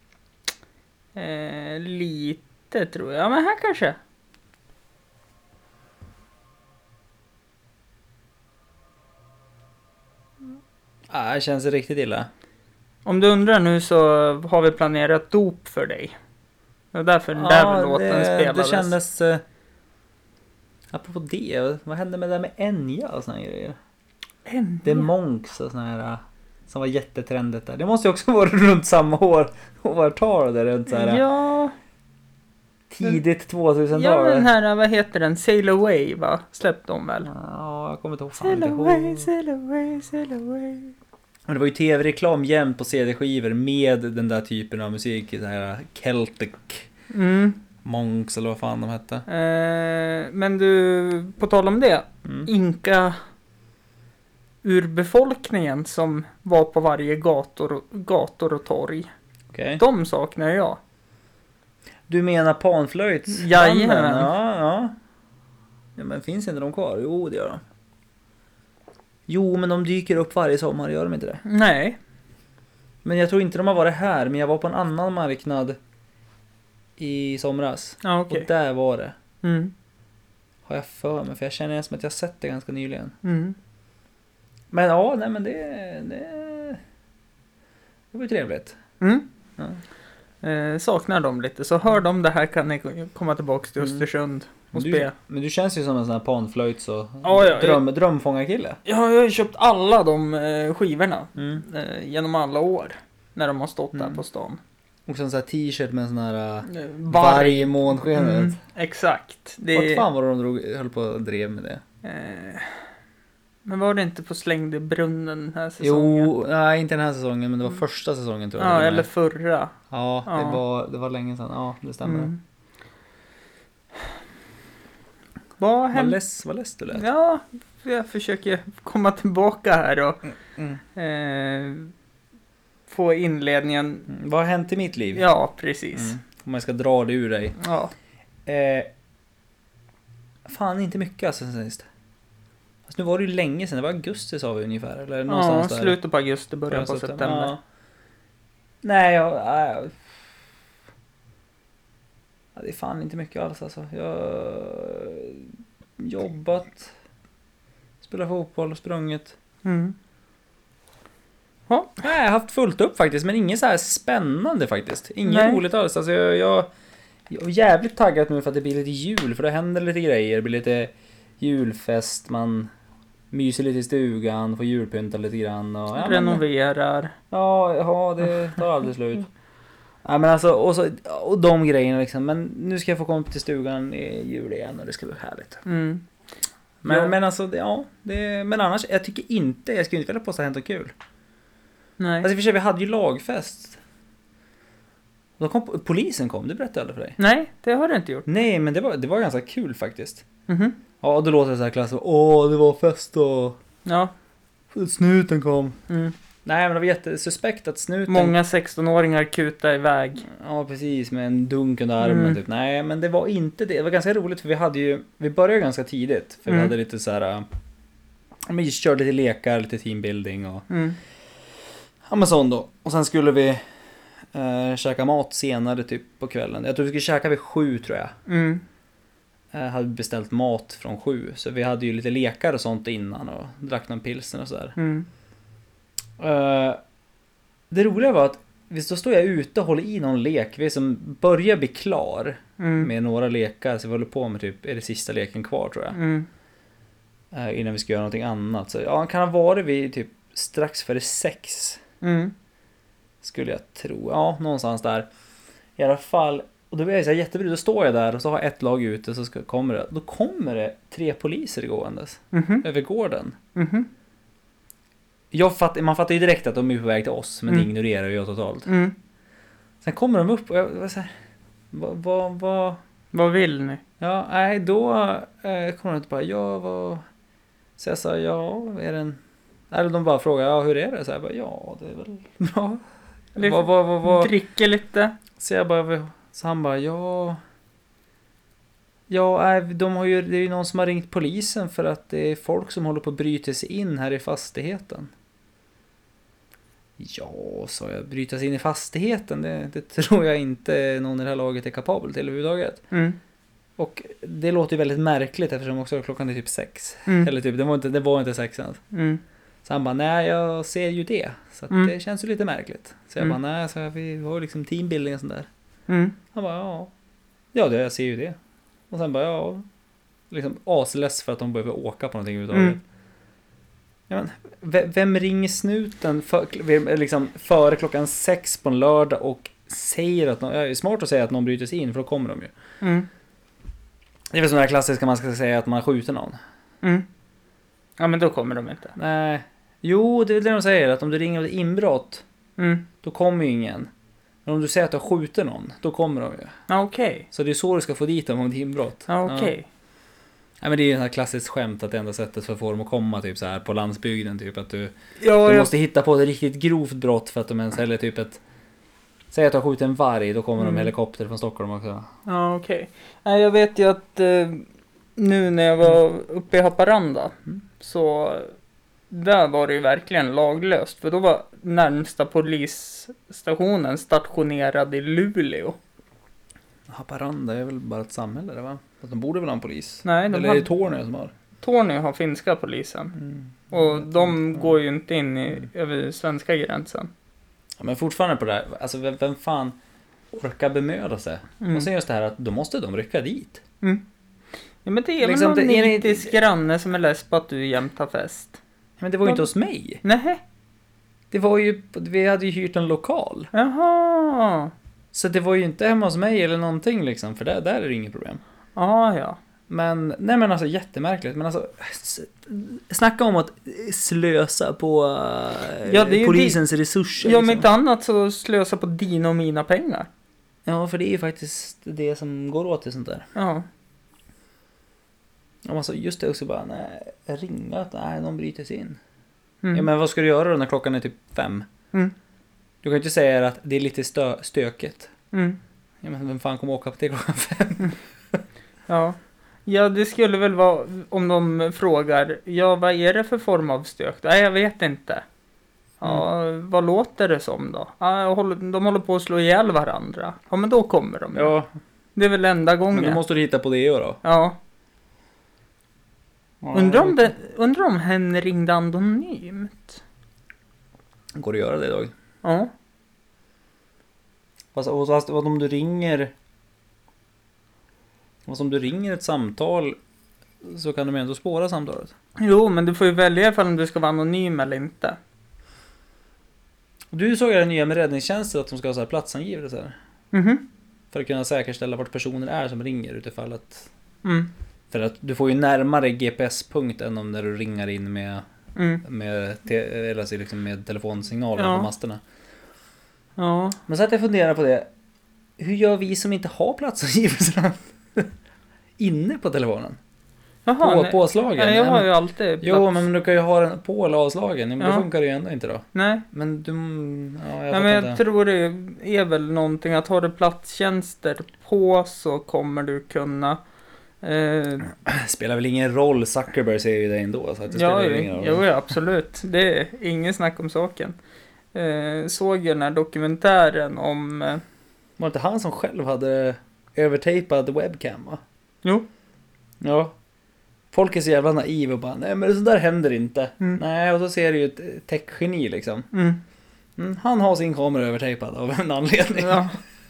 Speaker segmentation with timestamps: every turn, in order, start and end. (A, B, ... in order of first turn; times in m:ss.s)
0:01.1-0:04.0 A
0:11.1-0:12.3 B
0:13.0-0:16.2 A
0:16.9-0:18.9 A
0:17.4-0:19.4 B
0:20.9-0:23.8 B
0:24.4-0:25.1 A
0:24.8-0:31.2 B
0:30.9-0:31.8 A
0:32.9-0:34.5 B
0:33.9-0:37.3 A
0:37.2-0:39.3 B
0:38.4-0:40.9 A
0:41.5-0:46.9 B
0:47.1-0:47.6 A
0:47.8-0:49.2 B
0:49.3-0:53.2 A
0:54.6-0:59.1 A
0:59.5-0:59.8 B
0:59.8-1:00.8 A
1:02.1-1:04.9 B
1:03.3-1:04.3 A
1:06.0-1:07.6 B
1:09.3-1:11.4 B
1:11.4-1:12.0 A
1:13.0-1:15.8 B
1:17.0-1:19.1 B
1:18.0-1:18.4 A
1:19.4-1:19.7 A
1:20.6-1:23.1 B
1:23.2-1:23.6 A
1:24.7-1:26.8 B
1:28.1-1:28.8 B
1:29.0-1:29.2 A
1:30.4-1:35.1 A
1:33.8-1:34.1 B
1:34.7-1:38.8 B
1:37.2-1:37.8 A
1:38.9-1:44.6 A
1:43.9-1:44.2 B
1:45.0-1:48.6 B
1:46.6-1:50.0 A
1:49.7-1:51.8 B
1:52.0-1:52.8 A
1:53.6-1:56.3 A
1:55.8-1:59.1 B
1:58.6-1:59.8 A
1:59.9-2:02.3 B
2:00.2-2:00.6 A
2:02.0-2:02.4 A
2:05.6-2:06.2 A
2:05.9-2:07.0 B
2:06.9-2:10.2 A
2:11.0-2:11.9 A
2:12.9-2:14.1 A
2:14.1-2:15.2 B
2:15.1-2:16.2 A
2:15.9-2:17.6 B
2:17.6-2:17.9 A
2:18.5-2:18.9 B
2:20.5-2:21.9 B
2:22.9-2:26.0 B
2:25.3-2:27.6 A
2:26.7-2:27.6 B
2:28.8-2:30.1 B
2:32.5-2:36.9 B
2:38.0-2:39.4 B
2:39.6-2:40.0 A
2:42.0-2:46.7 B
2:45.2-2:45.6 A
2:47.3-2:52.7 B
2:53.3-2:56.4 B
2:56.0-2:57.1 A
2:57.3-2:59.3 B
3:00.0-3:05.6 B
3:05.6-3:06.0 A
3:06.8-3:10.9 B
3:06.9-3:07.1 A
3:12.0-3:12.3 A
3:12.2-3:13.8 B
3:15.4-3:17.2 B
3:17.2-3:18.2 A
3:18.3-3:20.2 B
3:20.5-3:20.8 A
3:21.0-3:23.6 B
3:23.8-3:24.1 A
3:24.7-3:25.8 B
3:25.9-3:26.1 A
3:26.4-3:28.4 B
3:28.1-3:30.2 A
3:30.2-3:37.5 B
3:32.0-3:32.4 A
3:36.5-3:36.7 A
3:38.5-3:40.6 B
3:40.7-3:41.0 A
3:42.1-3:43.6 B
3:44.3-3:48.1 B
3:48.3-3:48.6 A
3:49.5-3:54.8 B
3:54.8-3:55.1 A
3:56.2-3:56.8 B
3:57.7-4:06.0 B
4:02.6-4:02.9 A
4:05.9-4:06.3 A
4:07.3-4:11.8 B
4:12.0-4:12.3 A
4:13.2-4:15.1 B
4:15.8-4:23.4 B
4:22.3-4:22.6 A
4:23.6-4:23.9 A
4:25.3-4:28.7 B
4:28.6-4:29.0 A
4:29.8-4:31.1 B
4:31.7-4:32.8 B
4:33.1-4:33.8 A
4:34.0-4:37.0 B
4:37.8-4:39.2 B
4:39.7-4:42.8 B
4:43.4-4:44.3 B
4:43.4-4:45.2 A
4:45.4-4:47.4 B
4:49.1-4:55.1 B
4:57.0-5:02.8 B
5:02.9-5:03.2 A
5:03.8-5:08.8 B
5:08.9-5:09.2 A
5:09.6-5:15.5 B
5:15.9-5:16.2 A
5:16.3-5:16.9 B
5:17.5-5:18.4 B
5:18.9-5:19.6 B
5:20.3-5:22.8 B
5:24.1-5:32.5 B
5:32.8-5:33.1 A
5:34.3-5:36.4 B
5:38.0-5:38.9 A
5:39.0-5:42.2 B
5:42.6-5:42.9 A
5:43.0-5:43.9 B
5:44.4-5:46.5 B
5:46.7-5:47.3 A
5:47.3-5:49.5 B
5:49.1-5:49.7 A
5:50.6-5:58.4 B
5:55.2-5:55.7 A
5:59.3-6:02.1 B
6:00.6-6:00.9 A
6:02.2-6:04.6 A
6:05.2-6:08.5 A
6:09.1-6:15.8 A
6:16.9-6:21.3 B
6:20.0-6:20.7 A
6:21.6-6:23.2 A
6:23.2-6:24.8 B
6:23.7-6:27.1 A
6:27.8-6:29.8 B
6:30.3-6:33.6 B
6:31.6-6:31.9 A
6:34.8-6:38.6 A
6:35.2-6:36.4 B
6:39.0-6:40.0 B
6:40.0-6:40.4 A
6:41.3-6:43.5 B
6:43.5-6:44.7 A
6:45.1-6:48.4 B
6:48.8-6:49.4 A
6:49.7-6:57.7 B
6:55.8-6:56.6 A
6:57.2-7:00.1 A
7:00.6-7:03.3 B
7:03.4-7:03.6 A
7:05.6-7:09.0 B
7:09.7-7:11.7 B
7:12.8-7:15.1 B
7:15.3-7:15.6 A
7:16.0-7:18.4 B
7:18.9-7:25.2 A
7:26.0-7:31.5 A
7:31.3-7:31.7 B
7:32.2-7:33.2 A
7:32.9-7:34.2 B
7:34.2-7:34.6 A
7:36.6-7:37.3 B
7:36.7-7:40.0 A
7:41.4-7:42.1 B
7:42.4-7:42.7 A
7:44.7-7:46.3 B
7:48.5-7:50.0 B
7:50.6-7:52.1 B
7:52.4-7:55.2 A
7:57.1-8:00.0 B
8:00.3-8:00.6 A
8:01.1-8:03.9 B
8:04.2-8:04.5 A
8:04.9-8:08.4 B
8:08.8-8:09.0 A
8:09.0-8:12.2 B
8:11.6-8:11.9 A
8:13.4-8:13.8 A
8:13.9-8:14.9 B
8:15.6-8:18.3 B
8:19.0-8:20.0 B
8:20.6-8:23.0 A
8:20.8-8:22.1 B
8:22.6-8:28.2 B
8:24.8-8:25.0 A
8:25.9-8:26.2 A
8:27.7-8:33.6 A
8:34.2-8:34.9 A
8:34.9-8:38.6 B
8:37.7-8:41.1 A
8:41.7-8:44.6 A
8:45.2-8:48.4 B
8:49.8-8:50.1 B
8:50.9-8:56.1 B
8:56.1-8:56.4 A
8:57.0-8:59.8 B
8:59.4-8:59.8 A